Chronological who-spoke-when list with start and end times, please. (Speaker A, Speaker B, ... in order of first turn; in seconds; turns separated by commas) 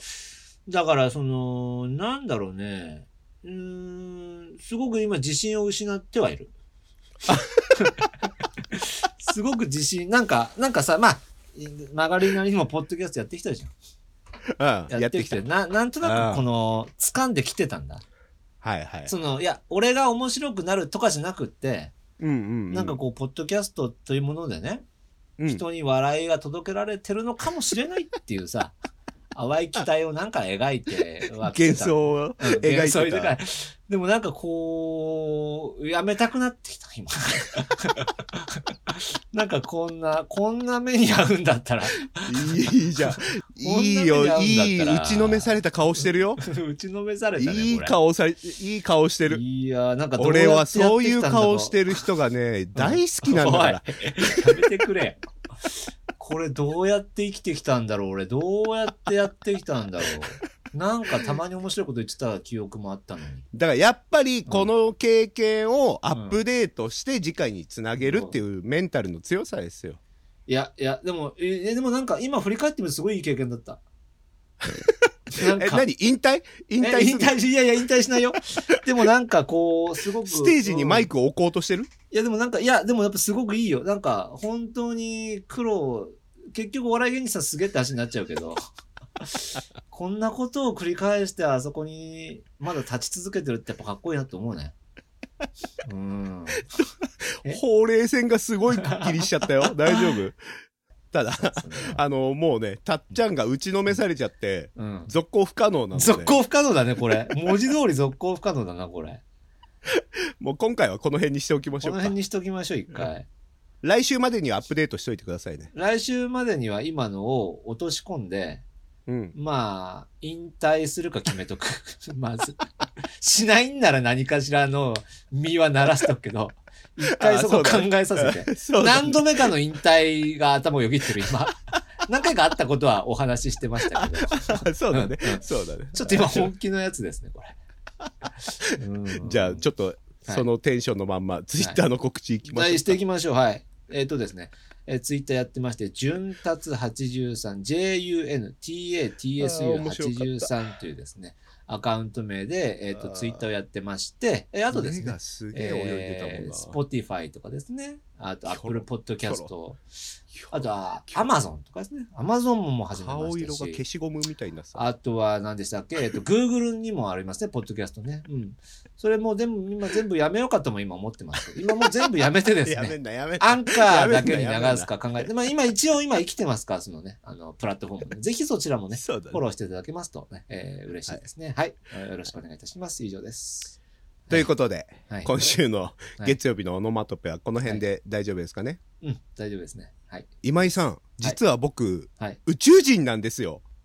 Speaker A: 0.7-6.5, Speaker A: 8.7-13.7, Speaker B: 14.6-15.4, Speaker A: 14.9-18.0, Speaker B: 16.0-16.4, Speaker B: 18.6-19.1, Speaker A: 19.1-22.0, Speaker B: 22.2-23.0, Speaker A: 22.7-24.9, Speaker B: 25.4-25.6, Speaker A: 25.5-28.8, Speaker A: 29.3-42.5, Speaker B: 31.4-33.4, Speaker B: 42.2-46.4, Speaker A: 43.0-45.6, Speaker A: 46.4-48.0, Speaker B: 47.4-49.4, Speaker A: 49.3-51.8, Speaker B: 50.2-53.9, Speaker A: 52.8-63.5, Speaker B: 63.5-70.0, Speaker A: 66.1-66.4, Speaker A: 68.0-68.4, Speaker A: 70.5-73.8, Speaker B: 74.6-75.0, Speaker A: 75.3-75.9, Speaker B: 75.6-77.3, Speaker A: 76.8-81.1, Speaker B: 80.2-81.9, Speaker A: 82.1-88.6, Speaker A: 89.2-94.8, Speaker A: 95.9-96.7, Speaker B: 97.4-100.4, Speaker A: 98.8-100.2, Speaker B: 101.1-106.4, Speaker A: 101.4-102.0, Speaker A: 104.8-105.1, Speaker A: 105.9-109.2, Speaker B: 109.9-112.2, Speaker A: 111.8-113.3, Speaker B: 113.8-115.7, Speaker A: 115.7-118.7, Speaker B: 119.1-119.3, Speaker A: 119.3-135.4, Speaker B: 127.1-129.5, Speaker B: 134.0-136.5, Speaker A: 135.9-137.6, Speaker A: 138.8-139.7, Speaker B: 139.2-143.0, Speaker A: 142.5-159.8, Speaker B: 149.4-150.6, Speaker B: 152.9-153.5, Speaker B: 154.7-156.8, Speaker B: 158.5-159.5, Speaker B: 160.3-161.2, Speaker A: 160.5-163.8, Speaker B: 162.9-164.9, Speaker A: 164.8-183.8, Speaker B: 172.7-174.9, Speaker B: 178.9-179.4, Speaker B: 184.3-188.8, Speaker A: 185.1-185.3, Speaker A: 189.0-190.3, Speaker B: 190.4-193.6